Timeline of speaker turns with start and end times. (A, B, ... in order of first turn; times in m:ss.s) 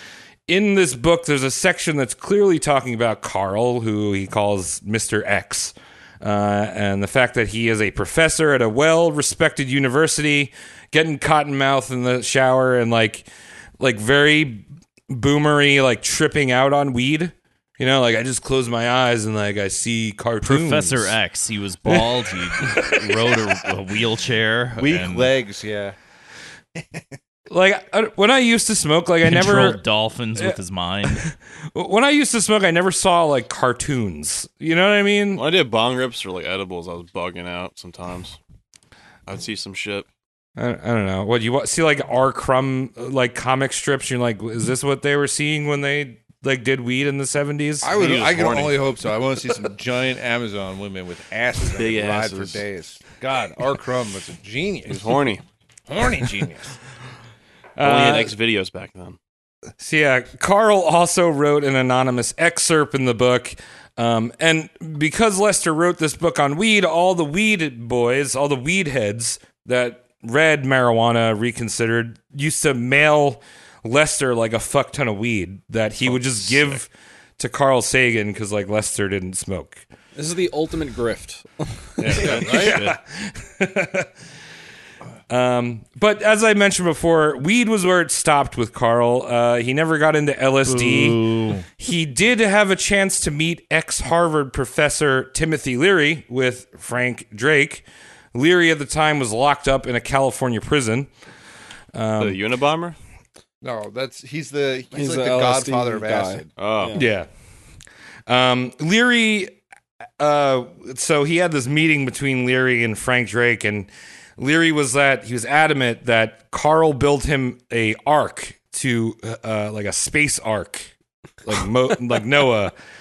0:00.5-0:13.3 A
0:13.8-0:21.1 A
0:20.4-0:25.3 B
0:22.6-0:22.9 A
0:24.8-0:26.0 C
0:26.8-0:27.0 C
0:27.5-0:29.8 A
0:29.2-0:31.2 B
0:31.1-0:35.5 A
0:35.4-0:38.4 D
0:39.3-0:40.1 D
0:40.6-0:48.0 A
0:47.8-0:55.0 C
0:47.9-0:48.8 D
0:51.7-0:52.6 D
0:54.9-0:55.4 D
0:55.9-0:56.7 C
0:57.8-0:58.4 A
0:57.8-0:59.2 D
0:59.8-1:19.8 A
1:16.3-1:16.7 D
1:20.2-1:22.3 E
1:22.0-1:24.1 A
1:22.1-1:23.0 D
1:22.1-1:22.8 C
1:25.3-1:31.3 A
1:30.7-1:31.6 B
1:31.8-1:41.1 A
1:41.9-1:42.4 A
1:42.2-1:43.0 D
1:43.6-1:46.5 C
1:44.9-1:47.0 E
1:46.6-1:47.0 D
1:46.9-1:47.3 A
1:48.3-1:49.6 A
1:50.2-2:00.9 A
2:01.4-2:02.7 A